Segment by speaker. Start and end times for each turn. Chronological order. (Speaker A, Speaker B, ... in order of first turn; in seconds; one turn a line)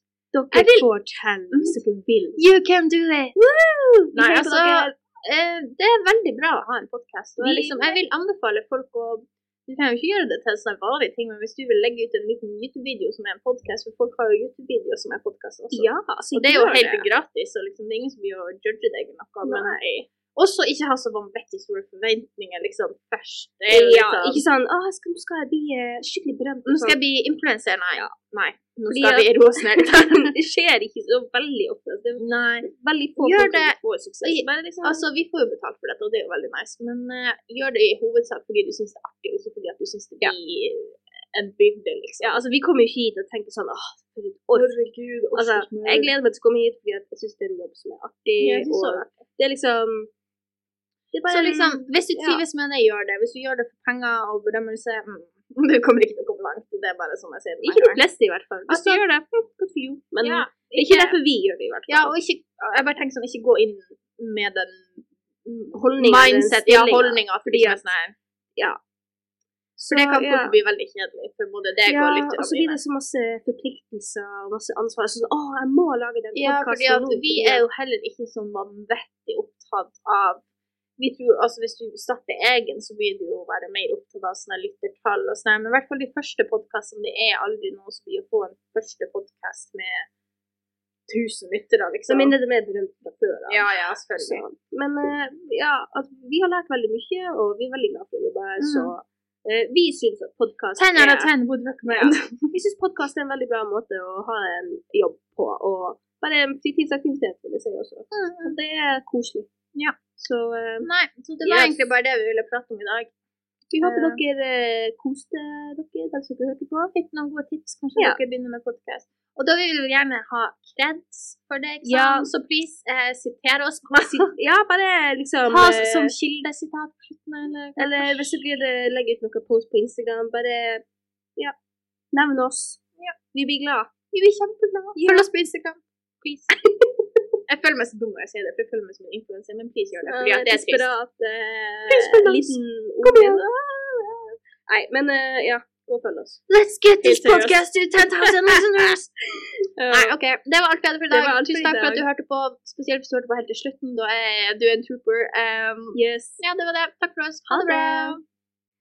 Speaker A: 0.3-2.4
Speaker B: 0.5-0.9
Speaker B: 1.5-1.8
Speaker B: 2.4-3.4
Speaker A: 3.4-5.0
Speaker B: 4.2-24.4
Speaker A: 7.4-8.0
Speaker A: 15.7-17.1
Speaker A: 19.4-19.8
Speaker A: 23.7-27.0
Speaker B: 26.7-30.3
Speaker A: 28.9-35.1
Speaker B: 32.2-32.7
Speaker B: 33.2-42.4
Speaker A: 42.2-44.8
Speaker B: 44.5-46.1
Speaker A: 45.4-50.1
Speaker B: 48.4-49.2
Speaker A: 51.1-52.4
Speaker B: 51.3-58.0
Speaker A: 57.6-62.1
Speaker B: 58.7-59.2
Speaker B: 60.2-61.2
Speaker B: 61.9-68.2
Speaker A: 65.7-67.8
Speaker A: 69.8-70.5
Speaker B: 69.9-72.8
Speaker A: 71.9-77.6
Speaker B: 76.4-80.4
Speaker B: 81.0-90.1
Speaker B: 91.1-92.3
Speaker A: 92.1-101.3
Speaker B: 93.5-94.4
Speaker B: 98.6-98.9
Speaker B: 100.8-102.5
Speaker A: 101.9-109.5
Speaker B: 108.1-108.6
Speaker B: 109.8-110.0
Speaker A: 110.2-110.9
Speaker B: 110.8-113.1
Speaker A: 111.4-111.8
Speaker A: 113.7-116.9
Speaker B: 113.8-114.2
Speaker B: 116.8-124.3
Speaker A: 121.8-122.3
Speaker A: 124.2-126.1
Speaker B: 125.5-128.3
Speaker A: 127.8-130.8
Speaker A: 132.1-133.9
Speaker B: 134.1-136.5
Speaker A: 135.0-135.3
Speaker A: 136.7-137.1
Speaker B: 137.5-140.9
Speaker A: 140.0-146.4
Speaker B: 141.9-143.4
Speaker B: 146.5-149.0
Speaker A: 147.0-150.2
Speaker B: 149.9-158.2
Speaker A: 151.1-152.1
Speaker A: 155.9-156.4
Speaker A: 157.5-158.2